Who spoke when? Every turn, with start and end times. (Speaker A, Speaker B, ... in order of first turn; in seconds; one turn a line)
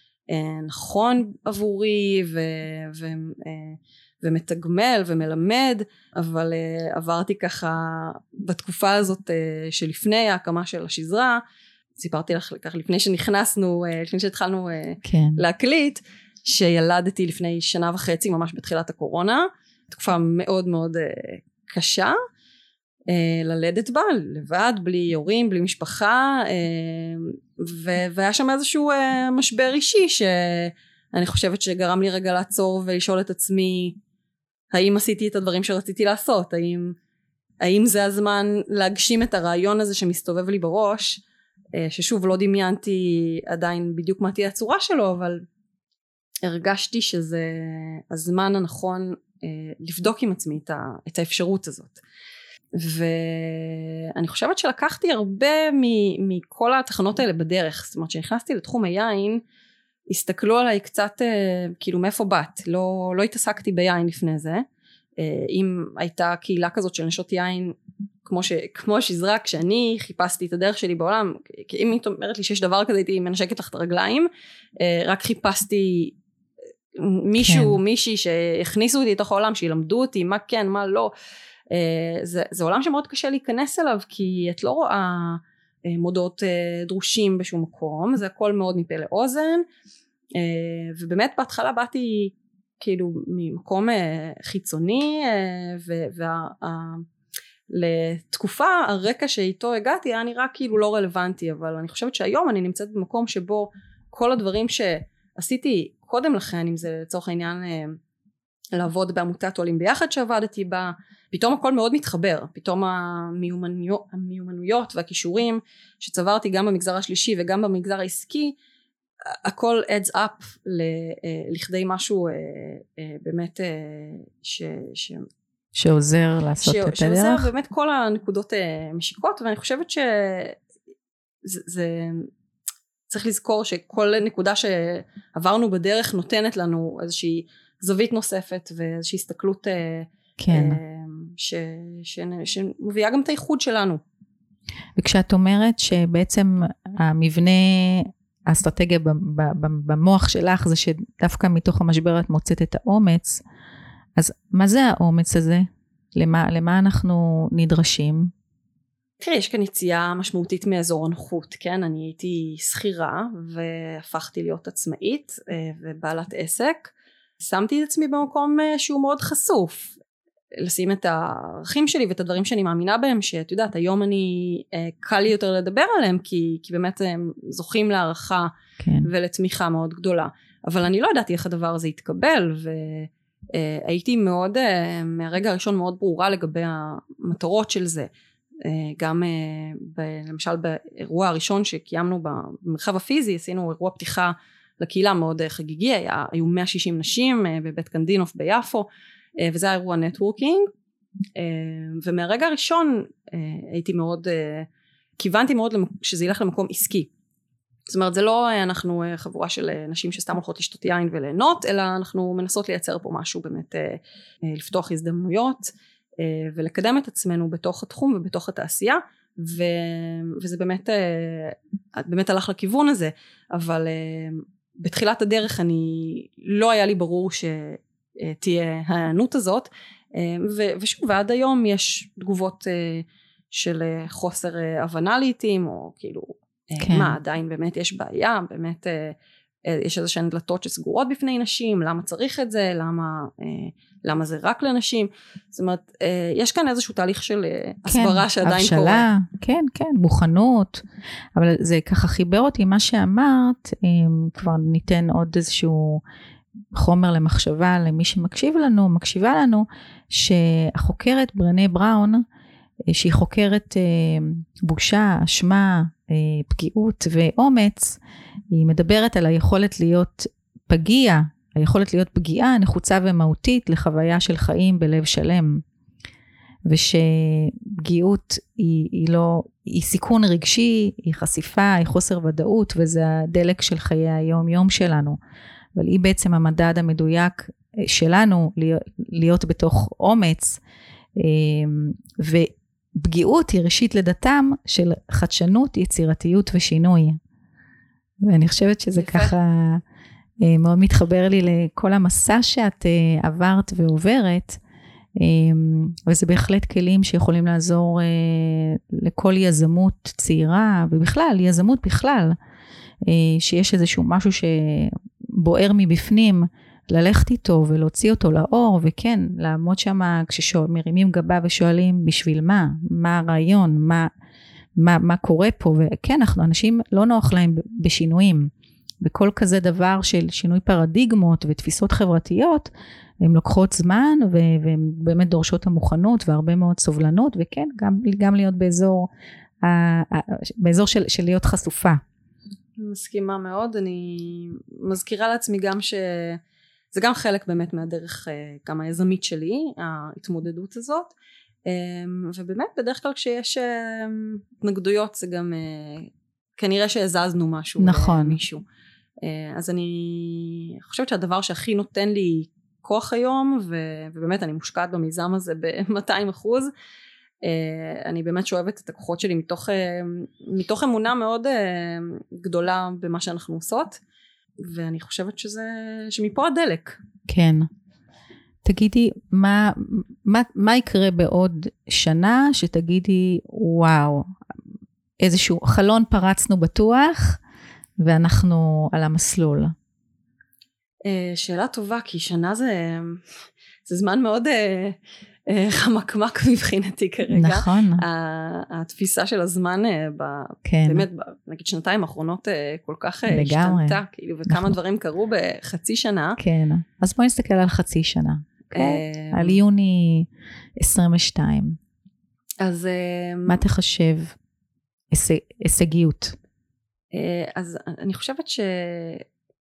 Speaker A: 0.3-11.4
Speaker A: 11.9-22.1
Speaker B: 15.0-15.4
Speaker A: 23.1-34.0
Speaker A: 34.7-36.9
Speaker A: 37.6-41.2
Speaker A: 41.8-45.4
Speaker A: 46.4-52.0
Speaker A: 52.8-59.4
Speaker A: 60.1-64.6
Speaker A: 65.2-74.3
Speaker A: 74.8-76.2
Speaker A: 77.0-81.1
Speaker B: 77.4-77.8
Speaker A: 81.7-89.7
Speaker A: 90.3-97.0
Speaker A: 97.7-108.0
Speaker A: 108.7-118.5
Speaker A: 119.3-125.3
Speaker B: 125.7-127.5
Speaker A: 126.6-130.6
Speaker A: 131.4-132.3
Speaker A: 133.1-144.0
Speaker B: 140.4-140.8
Speaker B: 144.9-153.4
Speaker B: 154.2-158.3
Speaker A: 159.2-169.9
Speaker A: 170.6-178.5
Speaker B: 178.8-179.1
Speaker A: 179.0-188.1
Speaker A: 188.6-198.9
Speaker A: 199.4-200.7
Speaker A: 201.3-207.1
Speaker A: 207.9-249.1
Speaker B: 236.8-237.1
Speaker B: 247.9-250.8
Speaker B: 251.3-256.0
Speaker B: 256.7-262.2
Speaker B: 262.9-268.0
Speaker B: 268.5-275.6
Speaker B: 276.7-285.2
Speaker B: 285.8-290.6
Speaker B: 291.2-297.2
Speaker B: 298.2-299.8
Speaker A: 298.9-299.3
Speaker B: 300.4-304.6
Speaker B: 305.2-312.4
Speaker B: 313.1-324.1
Speaker B: 324.8-328.5
Speaker B: 329.0-332.7
Speaker B: 333.2-339.1
Speaker B: 339.6-342.0
Speaker A: 342.8-346.4
Speaker A: 346.9-351.1
Speaker A: 351.6-358.6
Speaker B: 357.8-358.4
Speaker A: 359.2-366.7
Speaker A: 367.4-374.0
Speaker A: 374.6-377.0
Speaker B: 377.3-377.7
Speaker B: 378.6-384.3
Speaker B: 385.2-387.4
Speaker B: 388.0-389.7
Speaker A: 391.0-393.2
Speaker A: 393.9-406.4
Speaker B: 397.3-398.0
Speaker B: 400.6-401.1
Speaker B: 403.3-404.7
Speaker B: 406.4-410.3
Speaker A: 408.7-409.6
Speaker B: 410.8-411.8
Speaker A: 412.6-413.6
Speaker B: 413.5-414.3
Speaker B: 415.1-416.3
Speaker A: 417.1-419.2